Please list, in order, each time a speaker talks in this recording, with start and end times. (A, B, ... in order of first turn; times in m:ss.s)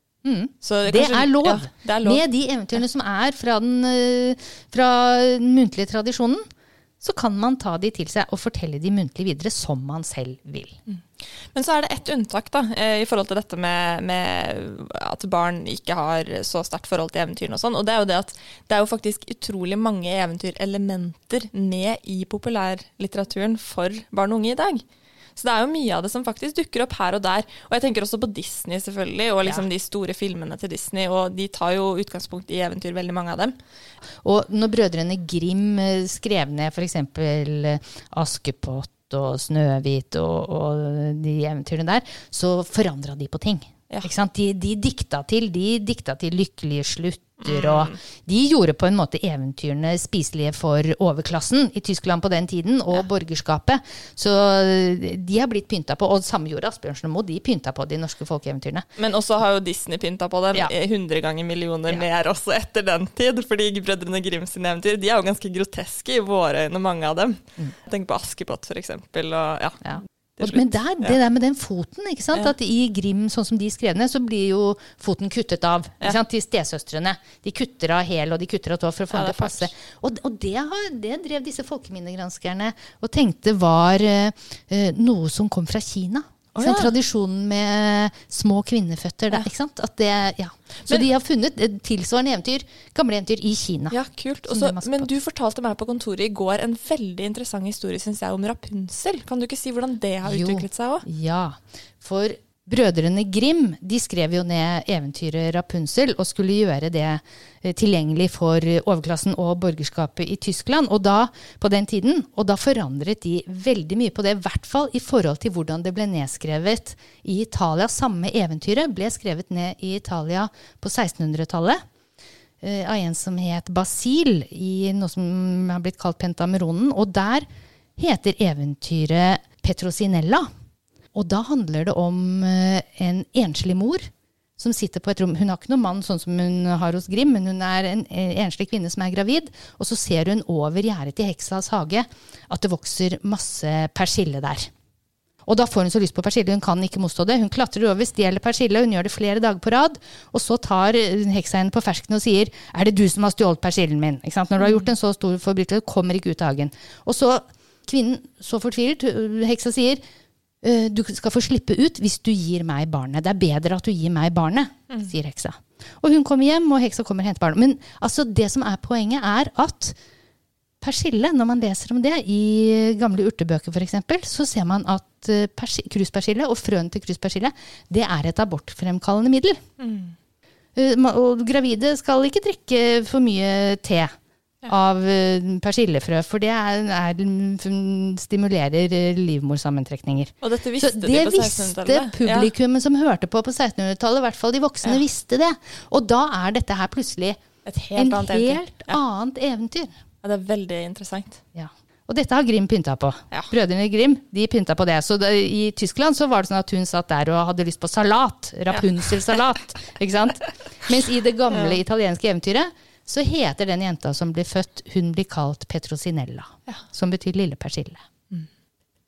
0:00.2-0:06.5 A
0:00.6-0:02.2 B
0:07.0-0:10.8 A
0:10.9-0:24.8 B
0:25.4-0:33.6 B
0:34.2-0:58.9 A
0:47.4-0:48.0 B
0:59.0-1:11.2 B
1:09.8-1:34.0 A
1:19.1-1:19.7 B
1:26.6-1:26.9 B
1:33.9-1:41.1 B
1:34.5-1:35.1 A
1:40.2-2:01.8 A
2:02.6-2:10.5 A
2:11.1-2:24.7 A
2:25.4-2:40.0 A
2:34.6-2:34.9 B
2:40.6-2:50.0 A
2:50.8-2:59.6 A
2:59.8-3:00.2 B
3:00.8-3:04.1 A
3:04.7-3:17.4 A
3:10.4-3:12.5 B
3:17.6-3:19.0 B
3:18.0-3:19.9 A
3:20.2-3:21.4 B
3:21.6-3:38.0 A
3:28.7-3:29.4 B
3:31.5-3:31.8 B